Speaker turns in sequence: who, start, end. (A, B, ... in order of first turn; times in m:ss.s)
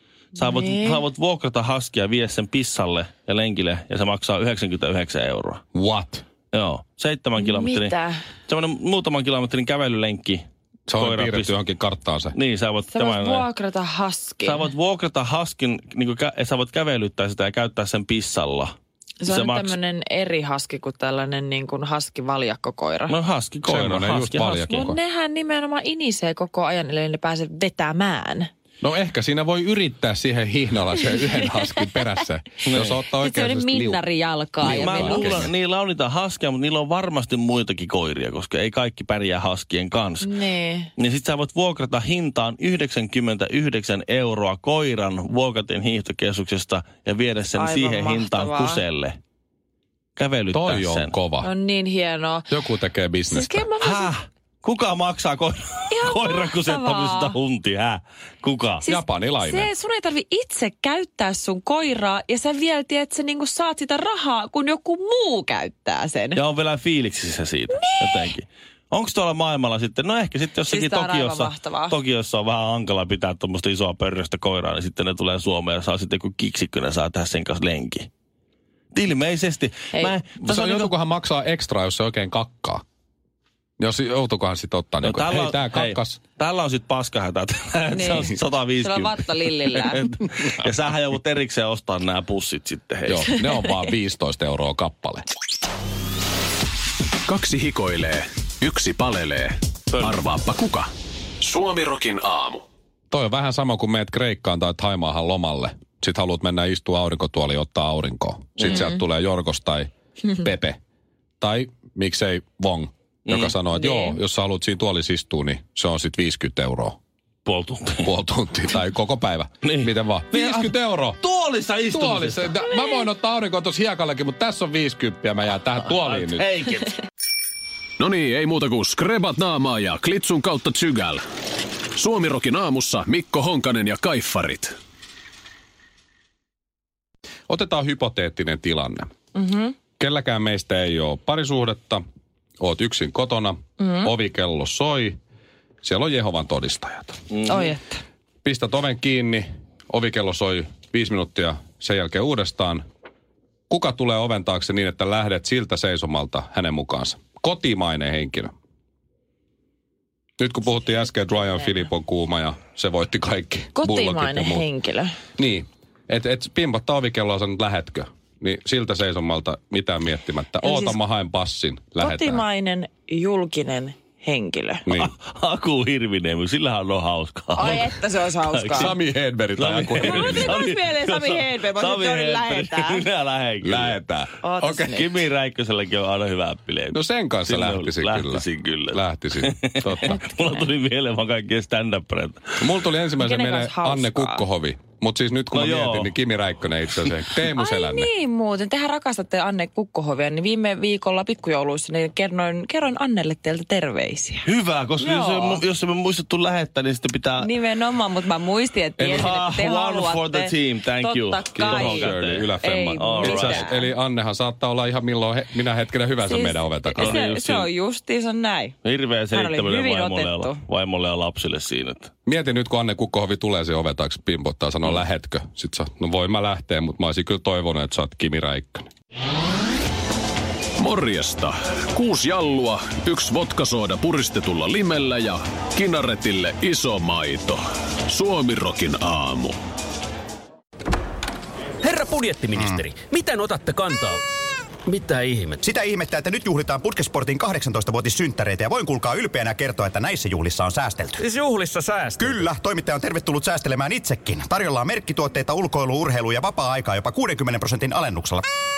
0:00.4-0:01.0 A
0:00.4-0:05.6 B
0:05.8-0:06.2 C
0:06.5-0:08.0 B
0:07.4-0:08.2 A
0:08.5-0:11.6 B
0:10.9-0:12.4 C
0:12.3-0:13.5 B
0:12.9-0:14.7 A
0:14.4-0:18.7 B
0:19.2-0:23.2 A
0:19.3-0:19.8 B
0:23.1-0:25.0 B
0:23.6-0:25.0 C
0:24.7-0:28.5 A
0:28.8-0:34.0 C
0:31.1-0:31.9 A
0:32.6-0:33.0 B
0:33.1-0:35.4 A
0:34.6-0:35.5 C
0:34.7-0:40.3 B
0:40.2-0:40.9 A
0:41.0-0:49.2 B
0:47.5-0:48.8 A
0:50.2-0:51.2 B
0:50.5-0:51.5 C
0:51.4-0:52.5 A
0:52.5-0:53.6 C
0:53.3-0:54.2 A
0:53.8-0:58.9 B
0:55.9-0:57.4 A
0:58.8-1:06.4 A
0:58.8-0:59.7 C
1:06.4-1:18.1 B
1:07.7-1:08.3 A
1:10.6-1:12.0 A
1:18.9-1:20.9 B
1:19.9-1:20.2 A
1:20.4-1:22.8 C
1:23.8-1:26.2 C
1:25.0-1:33.4 B
1:27.9-1:30.0 A
1:33.1-1:35.2 C
1:37.3-1:40.9 D
1:41.4-1:42.6 D
1:43.1-1:50.8 C
1:51.4-1:57.0 C
1:53.3-1:53.6 B
1:53.8-1:54.2 A
1:57.4-1:58.1 B
1:58.0-2:01.2 C
1:59.6-2:02.6 B
2:01.9-2:06.5 C
2:05.8-2:07.0 B
2:08.0-2:11.2 D
2:12.0-2:14.8 D
2:17.5-2:19.1 C
2:19.4-2:19.8 A
2:20.0-2:22.0 C
2:22.6-2:25.2 C
2:23.8-2:24.1 A
2:25.8-2:27.2 C
2:27.3-2:27.7 B
2:27.5-2:28.0 A
2:28.4-2:32.8 C
2:33.7-2:38.5 C
2:40.4-2:44.7 C
2:43.8-2:45.2 A
2:45.4-2:52.4 C
2:50.6-2:51.0 A
2:52.0-2:54.9 A
2:54.9-2:55.1 C
2:54.9-2:58.9 B
2:57.5-2:58.9 A
2:58.7-3:00.6 C
2:59.6-3:04.0 B
3:00.0-3:03.1 A
3:03.6-3:04.4 C
3:04.4-3:05.2 A
3:04.6-3:12.6 B
3:06.9-3:10.2 C
3:10.1-3:10.7 A
3:12.6-3:18.1 C
3:13.2-3:14.4 A
3:15.5-3:16.1 B
3:17.5-3:24.5 A
3:24.5-3:27.5 B
3:25.0-3:25.6 A
3:27.4-3:33.9 A
3:29.0-3:29.3 C
3:29.1-3:33.7 B
3:31.6-3:37.2 C
3:36.2-3:38.8 A
3:37.0-3:37.7 B
3:38.8-3:42.1 B
3:39.3-3:40.6 A
3:42.3-3:48.9 C
3:50.8-3:59.6 D
4:01.8-4:04.2 E
4:02.6-4:02.8 F
4:04.9-4:05.6 E
4:05.6-4:18.5 F
4:11.2-4:12.5 E